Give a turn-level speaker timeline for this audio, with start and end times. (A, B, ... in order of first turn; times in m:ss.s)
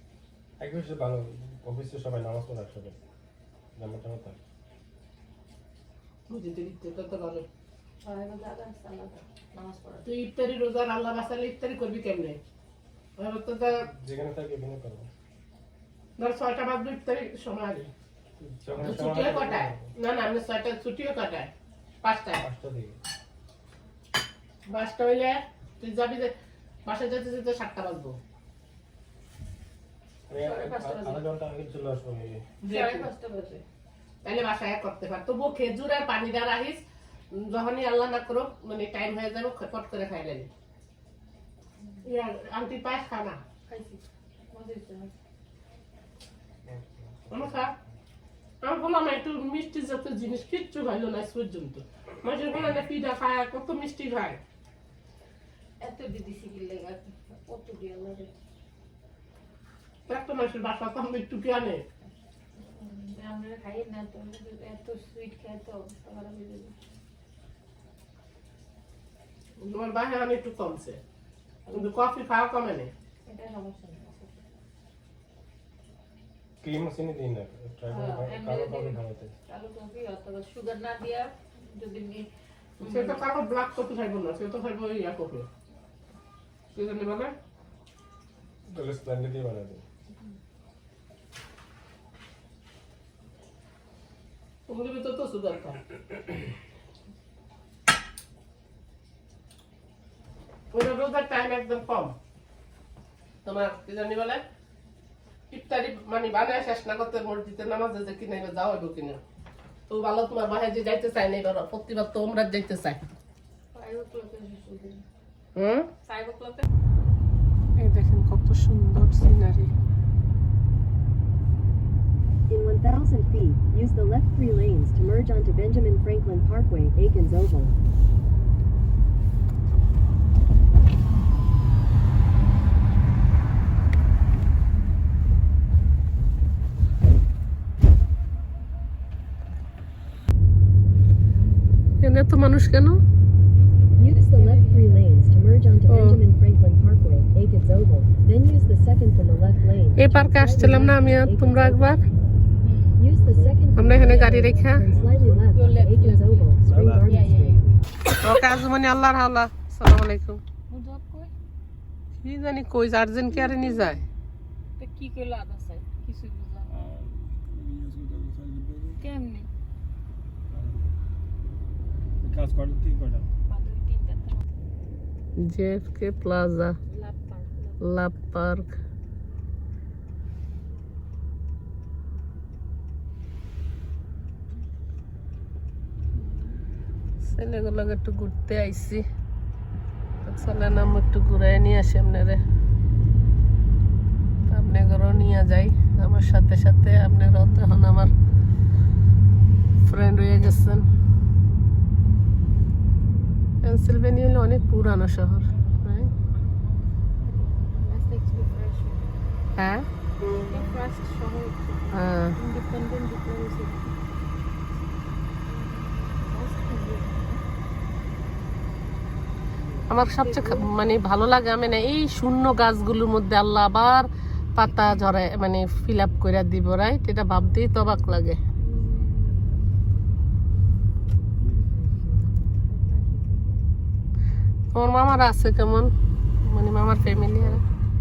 0:00.6-0:03.0 A
0:03.8-0:04.4 A
0:06.3-0:07.4 B
0:08.0-0:10.1 C
0:10.0-0:12.4 B
0:13.2-0:13.7 B
0:14.0-0:15.1 A
0:16.2-0:17.9 B
0:18.4-0:19.8 A
0:18.8-0:21.5 B
0:22.0-0:22.4 B
0:22.4-0:23.0 A
0:24.7-0:26.3 B
0:26.8-0:28.2 B
0:30.3-0:32.5 A
0:30.4-0:31.3 C
0:32.6-0:33.6 C
0:32.6-0:33.1 B
0:34.2-0:36.8 B
0:37.3-0:40.5 B
0:42.0-0:43.4 B
0:43.7-0:45.1 C
0:46.7-0:47.5 A
0:47.3-0:47.7 B
0:48.6-0:54.4 B
0:55.8-0:58.3 C
1:00.1-1:01.8 B
1:02.6-1:06.7 C
1:09.6-1:11.0 B
1:11.7-1:12.9 B
1:13.2-1:14.4 C
1:16.6-1:19.3 A
1:17.9-1:22.3 C
1:22.8-1:23.2 C
1:22.8-1:25.5 B
1:26.7-1:27.3 B
1:28.7-1:29.8 A
1:34.7-1:35.8 B
1:40.7-1:42.1 B
1:43.4-1:44.4 B
1:45.5-1:49.2 B
1:49.9-1:53.0 B
1:53.7-1:55.0 C
1:55.6-1:55.9 B
1:56.0-1:56.6 C
1:57.8-1:59.7 B
2:02.5-2:07.7 D
2:22.0-2:23.0 B
2:24.0-2:25.0 C
2:24.0-2:32.0 D
2:25.9-2:26.2 B
2:30.0-2:32.0 B
2:32.6-2:33.1 C
2:33.0-2:37.7 D
2:33.7-2:34.8 B
2:34.8-2:35.4 A
2:35.5-2:37.9 C
2:36.6-2:37.1 A
2:38.1-2:40.4 B
2:40.7-2:41.3 C
2:42.2-2:44.0 B
2:43.3-2:43.9 C
2:44.8-2:47.0 C
2:46.9-2:49.0 A
2:49.0-2:49.5 C
2:50.5-2:50.9 A
2:52.2-2:53.2 A
2:53.5-2:54.4 C
2:55.4-2:56.8 B
2:56.9-2:57.8 C
2:57.8-2:58.8 B
3:07.2-3:09.0 B
3:10.2-3:12.4 B
3:14.5-3:18.1 B
3:19.8-3:20.8 B
3:23.6-3:26.1 B
3:27.4-3:29.0 C
3:29.6-3:29.8 B
3:30.5-3:33.9 C
3:31.9-3:32.3 B
3:35.5-3:37.4 C
3:39.9-3:48.4 B
3:40.1-3:40.7 C
3:48.6-3:49.6 C
3:52.6-3:53.6 C
3:54.7-3:55.9 B
3:56.4-3:57.6 B